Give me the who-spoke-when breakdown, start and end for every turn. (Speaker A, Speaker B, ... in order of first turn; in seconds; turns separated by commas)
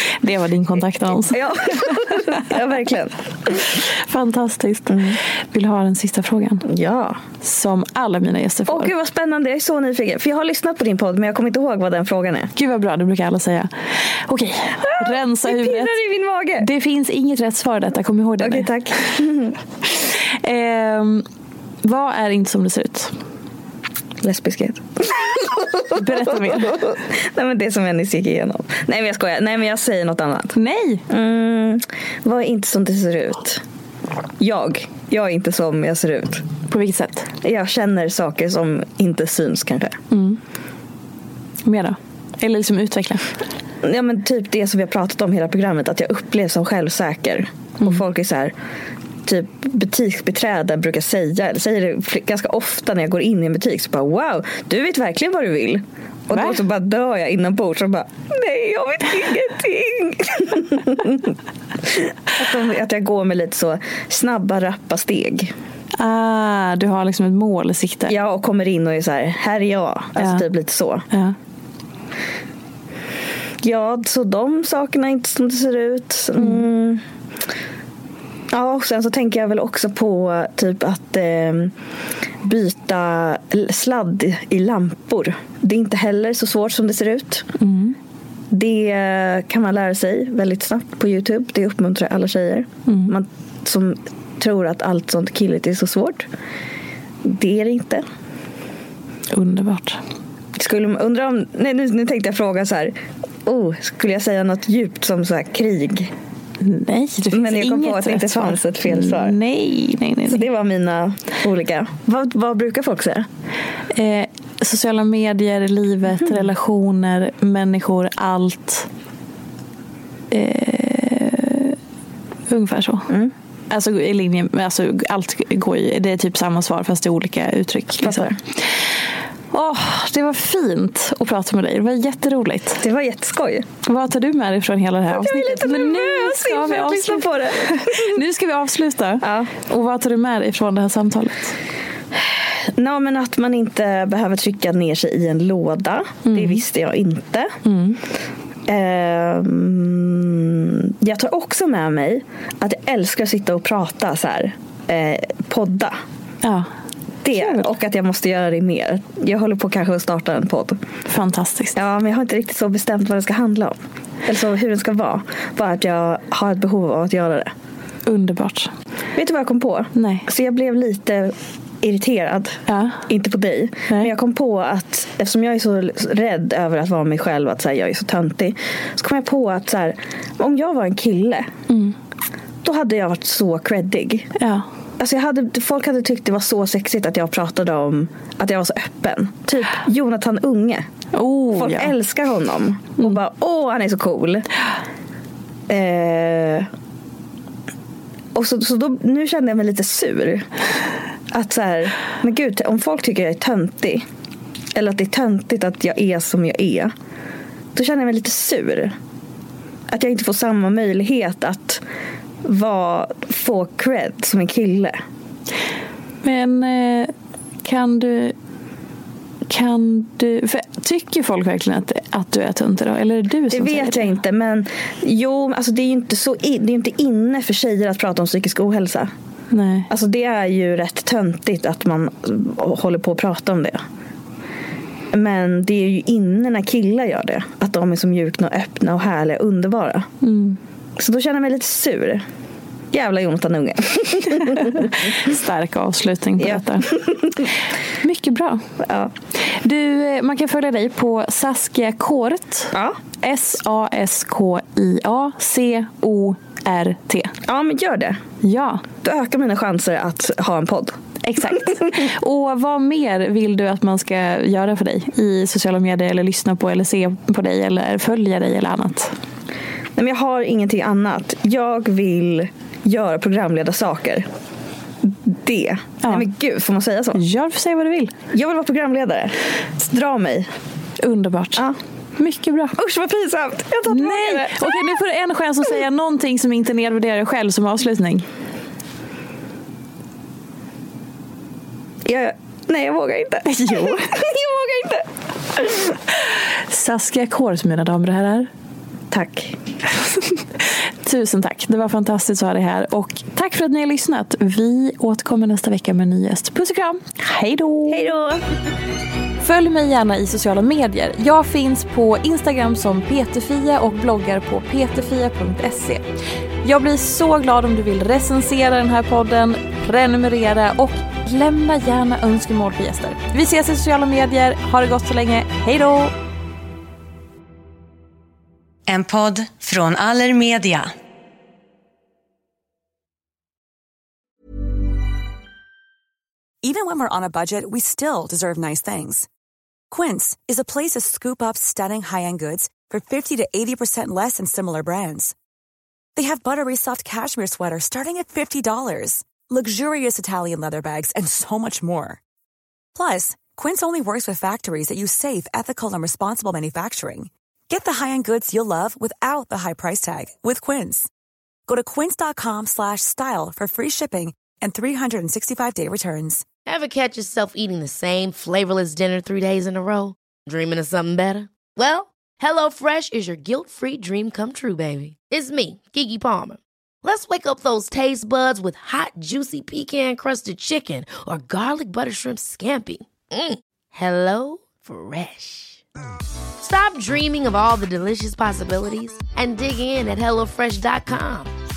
Speaker A: 0.2-2.1, Speaker B: 1.1-3.7, Speaker A: 3.7-6.7, Speaker B: 4.9-5.2, Speaker B: 6.7-7.2, Speaker A: 7.4-8.9, Speaker B: 8.7-12.5, Speaker A: 12.6-15.9, Speaker B: 14.9-16.7, Speaker A: 16.6-19.0, Speaker B: 18.4-19.6, Speaker A: 20.4-21.3, Speaker A: 21.8-23.1, Speaker B: 24.2-30.6, Speaker A: 25.9-26.8, Speaker A: 30.5-31.0, Speaker B: 31.1-33.6, Speaker B: 34.4-36.5, Speaker A: 36.7-37.3, Speaker B: 37.4-40.0, Speaker A: 40.1-40.4, Speaker A: 41.6-43.3, Speaker B: 43.8-48.5, Speaker B: 49.2-65.5, Speaker A: 66.0-68.2, Speaker B: 68.1-71.0, Speaker A: 70.2-70.4, Speaker A: 71.1-71.4, Speaker B: 73.6-77.0, Speaker B: 78.5-81.7, Speaker B: 82.4-87.5, Speaker A: 87.6-88.0, Speaker B: 88.5-96.3, Speaker A: 92.9-93.1, Speaker B: 97.2-98.0, Speaker A: 99.3-100.0, Speaker B: 100.6-106.1, Speaker A: 106.6-110.5, Speaker B: 107.3-109.4, Speaker B: 110.3-113.3, Speaker A: 113.9-118.9, Speaker A: 120.3-121.8, Speaker A: 122.5-123.1, Speaker A: 123.7-128.3, Speaker B: 128.0-128.4, Speaker A: 129.5-132.8, Speaker B: 132.8-133.7, Speaker A: 133.8-141.5, Speaker B: 135.1-138.2, Speaker B: 139.2-139.5, Speaker B: 142.2-147.6, Speaker A: 146.2-146.6, Speaker A: 147.6-148.0, Speaker B: 148.7-156.0, Speaker A: 156.4-156.7, Speaker B: 157.2-160.8, Speaker A: 157.3-157.7, Speaker A: 161.1-161.8, Speaker B: 161.8-167.5, Speaker A: 168.1-168.7, Speaker B: 169.2-181.5, Speaker A: 169.9-170.3, Speaker A: 172.7-173.0, Speaker A: 181.7-181.9, Speaker B: 182.6-184.3, Speaker A: 184.4-184.7, Speaker B: 185.0-190.9, Speaker A: 191.1-191.9, Speaker B: 191.5-194.5, Speaker B: 195.7-196.7, Speaker B: 198.3-200.5, Speaker B: 201.3-204.1, Speaker B: 204.7-206.9, Speaker B: 207.7-209.0, Speaker B: 209.9-211.8, Speaker B: 212.4-215.0, Speaker A: 216.2-217.1, Speaker A: 217.6-218.3, Speaker A: 219.5-224.1, Speaker B: 223.5-229.1, Speaker A: 229.5-229.9, Speaker B: 229.9-233.8, Speaker B: 235.1-240.1, Speaker A: 240.2-240.6, Speaker B: 241.0-242.2, Speaker B: 242.9-245.1, Speaker A: 244.6-247.0, Speaker B: 246.4-247.5, Speaker A: 248.0-248.6, Speaker B: 248.8-249.1, Speaker A: 249.4-257.3, Speaker B: 252.7-253.0, Speaker B: 257.4-258.2, Speaker A: 258.4-258.8, Speaker B: 259.0-261.0, Speaker A: 261.2-269.1, Speaker B: 270.0-274.3, Speaker B: 275.0-277.2, Speaker A: 277.1-278.1, Speaker B: 278.3-280.5, Speaker A: 281.0-281.7, Speaker A: 282.2-282.8, Speaker B: 282.8-284.9, Speaker A: 283.9-288.3, Speaker B: 292.0-296.0, Speaker A: 293.5-294.1, Speaker A: 296.7-298.5, Speaker B: 299.1-299.6, Speaker A: 301.0-308.1, Speaker B: 307.9-308.4, Speaker A: 309.4-316.1, Speaker A: 316.6-326.1, Speaker C: 328.9-330.9, Speaker D: 336.6-339.3, Speaker D: 339.9-345.3, Speaker D: 346.1-352.2, Speaker D: 352.9-361.1, Speaker D: 361.7-366.5, Speaker E: 366.6-385.8, Speaker E: 386.6-391.5